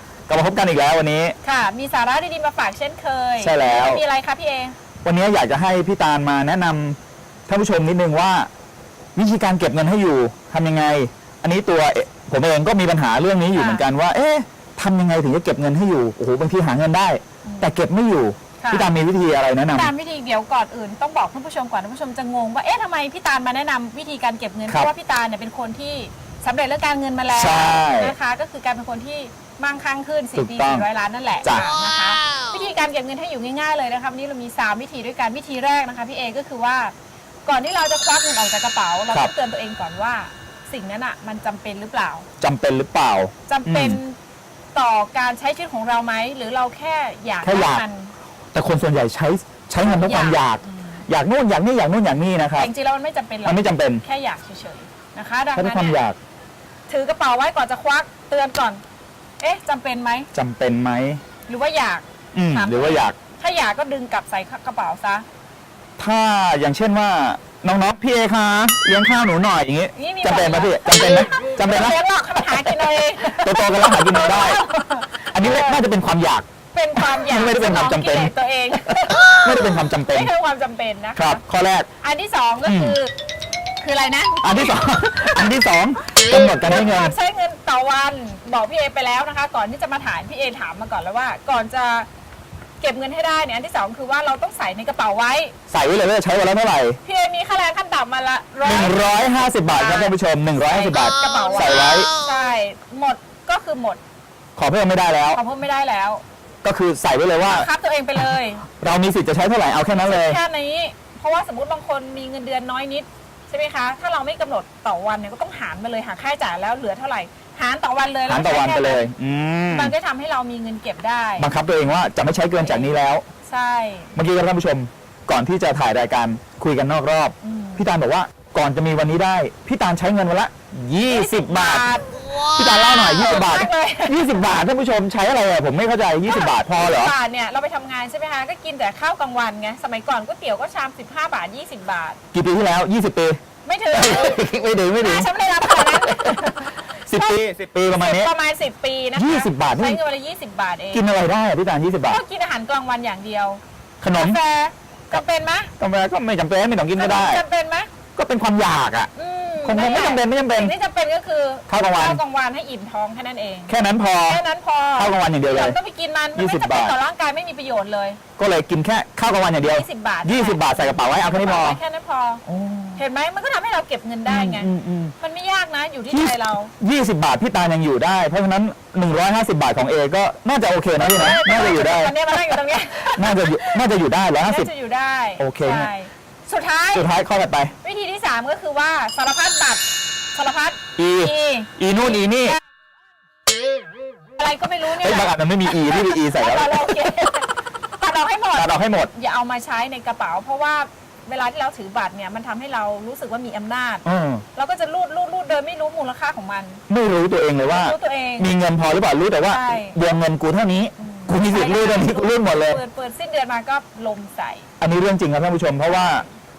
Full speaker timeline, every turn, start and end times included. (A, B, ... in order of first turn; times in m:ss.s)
0:00.3-0:01.4 A
0:01.4-0:04.8 B
0:03.4-0:04.0 A
0:05.0-0:08.5 A
0:09.2-0:19.9 A
0:13.5-0:13.8 B
0:17.4-0:17.7 B
0:18.6-0:18.9 B
0:19.7-0:36.9 B
0:27.3-0:28.1 A
0:30.4-0:30.9 A
0:31.4-0:31.8 A
0:37.4-0:42.2 B
0:42.4-0:44.0 A
0:43.5-0:44.2 B
0:44.7-0:48.1 B
0:47.4-0:47.8 A
0:48.5-0:52.7 A
0:49.8-0:50.4 B
0:52.6-0:56.0 B
0:53.4-0:54.0 A
0:55.5-0:56.2 A
0:56.9-0:58.8 B
0:59.4-1:00.3 B
1:00.3-1:01.2 A
1:01.5-1:05.2 B
1:02.3-1:03.2 A
1:06.0-1:14.6 A
1:09.9-1:15.8 B
1:15.3-1:18.3 A
1:16.7-1:21.4 B
1:19.2-1:20.3 A
1:21.2-1:21.9 A
1:22.0-1:23.1 B
1:22.6-1:23.0 A
1:23.8-1:24.9 B
1:24.4-1:27.1 A
1:26.6-1:32.1 B
1:32.8-1:35.5 B
1:35.7-1:37.0 A
1:37.0-1:44.0 B
1:38.6-1:42.1 A
1:44.6-1:45.4 A
1:45.3-1:46.2 B
1:46.6-1:47.7 A
1:47.4-1:48.6 B
1:48.7-1:50.4 A
1:49.9-1:59.1 B
1:58.3-1:59.9 A
1:59.7-2:01.5 B
2:01.4-2:03.2 A
2:02.6-2:02.9 B
2:03.4-2:04.1 B
2:04.2-2:17.1 A
2:07.4-2:07.8 B
2:11.1-2:14.3 B
2:16.2-2:22.2 B
2:22.3-2:23.4 A
2:23.6-2:24.4 B
2:23.9-2:28.3 A
2:25.0-2:31.0 B
2:29.2-2:30.0 A
2:30.9-2:32.2 A
2:32.0-2:33.6 B
2:34.0-2:34.4 A
2:34.1-2:35.7 B
2:35.8-2:37.4 A
2:37.0-2:37.9 B
2:38.1-2:39.1 A
2:39.1-2:43.7 B
2:39.6-2:40.7 A
2:41.7-2:42.2 A
2:43.7-2:44.4 A
2:44.3-2:48.2 B
2:45.0-2:45.8 A
2:46.4-2:46.9 A
2:48.4-2:51.8 A
2:49.6-2:52.4 B
2:52.4-2:53.0 A
2:53.0-2:56.7 B
2:54.2-2:55.1 A
2:56.1-3:02.6 A
3:01.0-3:03.8 B
3:03.1-3:04.7 A
3:04.4-3:07.0 B
3:05.4-3:05.9 A
3:06.9-3:07.7 A
3:07.8-3:12.6 B
3:11.0-3:12.6 A
3:14.4-3:26.8 B
3:14.9-3:17.1 A
3:18.5-3:19.1 A
3:24.0-3:24.4 A
3:26.9-3:32.8 A
3:27.7-3:28.5 B
3:29.5-3:30.0 B
3:31.0-3:34.7 B
3:34.8-3:36.2 A
3:35.9-3:36.2 B